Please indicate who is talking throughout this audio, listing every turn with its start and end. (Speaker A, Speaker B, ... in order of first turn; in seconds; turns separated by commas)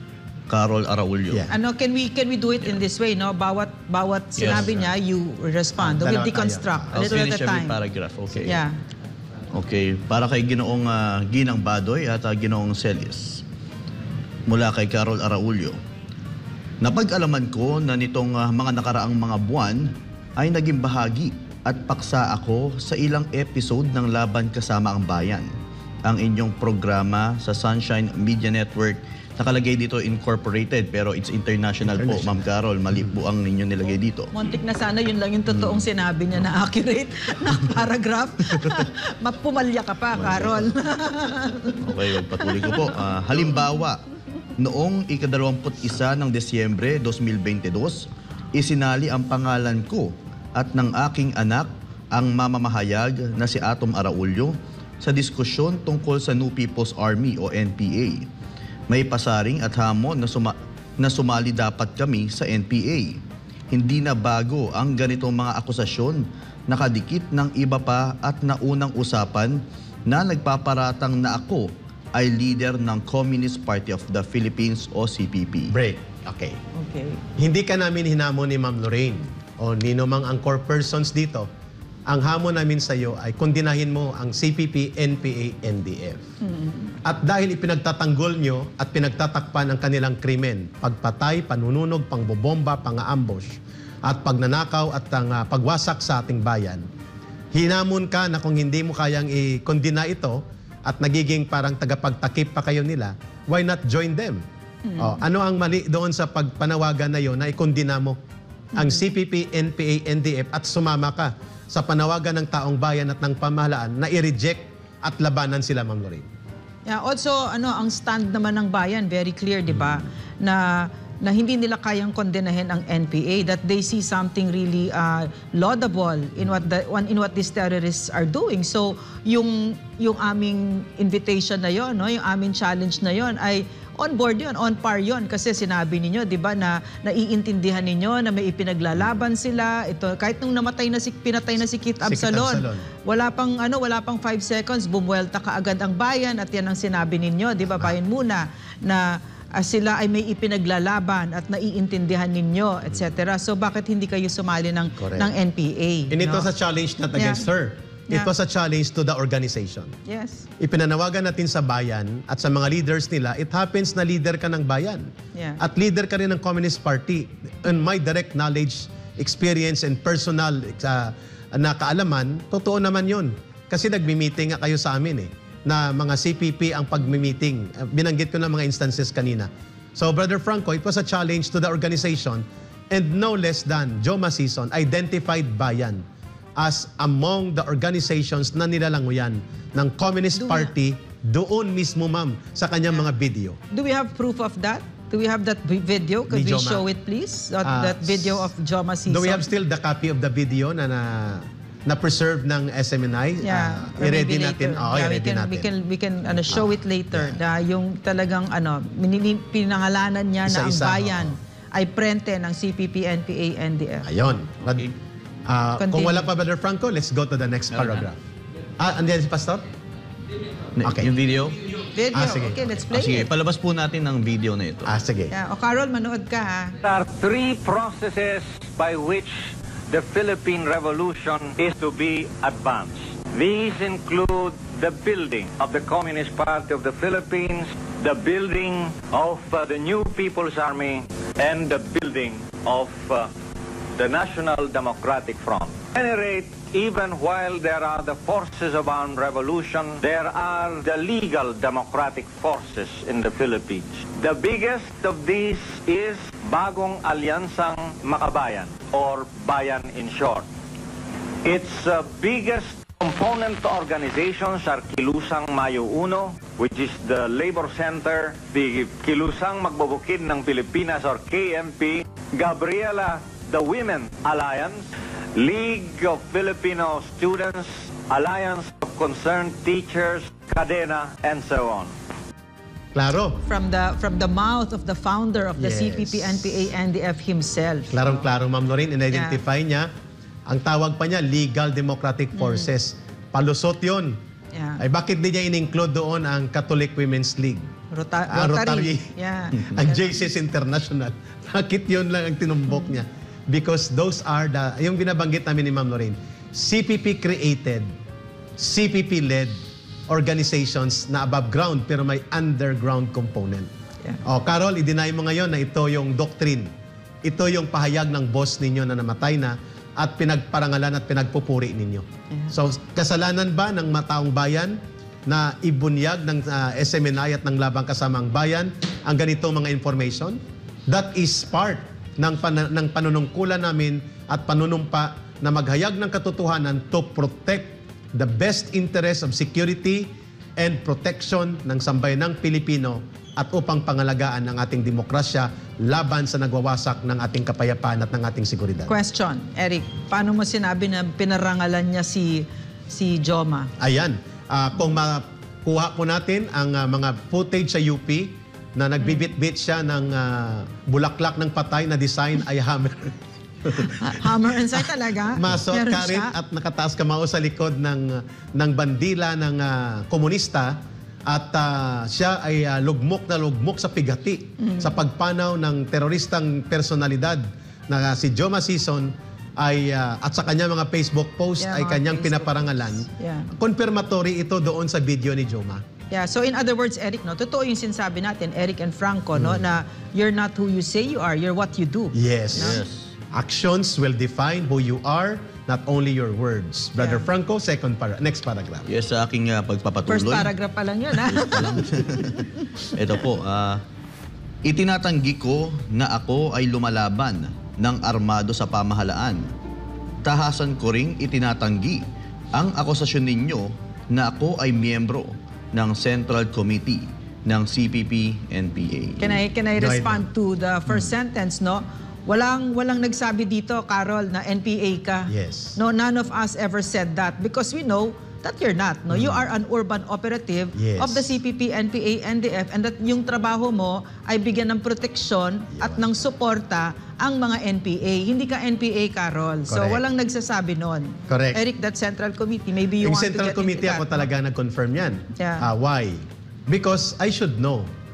Speaker A: 0.5-1.5, Speaker B: 1.3-1.6, Speaker C: 1.5-7.8, Speaker A: 4.4-4.8, Speaker B: 5.8-7.3, Speaker A: 6.9-8.6, Speaker C: 8.4-8.8, Speaker A: 9.5-13.4, Speaker A: 14.5-15.8, Speaker A: 16.8-25.5, Speaker A: 26.0-34.3, Speaker C: 34.3-42.9, Speaker A: 35.5-35.8, Speaker A: 40.1-40.7, Speaker A: 41.8-44.0, Speaker A: 44.6-58.3, Speaker A: 58.9-63.2, Speaker A: 63.7-75.7, Speaker B: 75.7-76.6, Speaker C: 76.8-77.2, Speaker B: 77.4-81.5, Speaker B: 82.1-86.2, Speaker C: 86.4-86.9, Speaker B: 87.0-96.9, Speaker B: 97.5-104.4, Speaker C: 104.8-105.2, Speaker B: 105.0-108.2, Speaker B: 108.7-116.3, Speaker C: 108.8-109.0, Speaker C: 116.8-156.5, Speaker B: 142.0-142.9, Speaker B: 147.7-147.9, Speaker B: 155.0-155.3, Speaker B: 156.1-159.9, Speaker C: 157.2-157.4, Speaker C: 160.1-160.5, Speaker B: 160.6-186.0, Speaker C: 165.3-165.6, Speaker B: 186.6-193.6, Speaker C: 190.4-190.7, Speaker C: 193.7-199.4, Speaker B: 196.3-196.8, Speaker B: 197.6-198.4, Speaker B: 199.1-205.7, Speaker C: 203.4-214.1, Speaker B: 206.3-207.4, Speaker B: 210.4-211.4, Speaker B: 214.0-214.9, Speaker B: 215.5-218.2, Speaker C: 215.8-216.3, Speaker A: 217.7-218.0, Speaker B: 218.8-219.6, Speaker A: 220.8-221.6, Speaker B: 220.8-221.1, Speaker C: 221.9-223.3, Speaker B: 222.1-222.8, Speaker A: 222.9-224.9, Speaker B: 224.9-225.3, Speaker C: 225.3-226.7, Speaker D: 226.8-243.3, Speaker D: 244.0-260.4, Speaker D: 261.4-274.8, Speaker D: 275.3-281.9, Speaker B: 282.9-283.4, Speaker C: 283.5-288.1, Speaker B: 285.6-286.7, Speaker B: 287.9-289.9, Speaker C: 289.1-289.4, Speaker B: 290.5-294.2, Speaker C: 292.4-292.7, Speaker C: 294.5-294.8, Speaker B: 294.8-297.7, Speaker C: 297.9-300.2, Speaker B: 298.3-299.1, Speaker B: 299.6-307.9, Speaker B: 308.6-313.7, Speaker B: 314.2-316.7, Speaker B: 317.2-348.9, Speaker C: 348.9-353.7, Speaker B: 353.8-363.9, Speaker C: 359.0-359.3, Speaker C: 363.8-366.3, Speaker B: 365.4-385.8, Speaker C: 374.6-374.9, Speaker C: 381.6-383.5, Speaker C: 386.1-392.8, Speaker B: 389.4-389.6, Speaker B: 392.1-392.8, Speaker A: 392.6-393.1, Speaker B: 393.3-398.9, Speaker C: 397.0-397.2, Speaker A: 398.9-400.5, Speaker C: 400.1-402.5, Speaker A: 401.1-403.8, Speaker A: 404.6-409.5, Speaker A: 410.2-412.0, Speaker A: 412.5-419.4, Speaker C: 419.2-444.3, Speaker B: 419.8-420.2, Speaker B: 420.9-421.1, Speaker B: 425.3-425.8, Speaker B: 429.1-429.5, Speaker B: 430.7-431.3, Speaker B: 435.8-436.1, Speaker B: 439.7-440.0, Speaker B: 441.3-441.6, Speaker B: 443.0-447.9, Speaker C: 445.4-445.7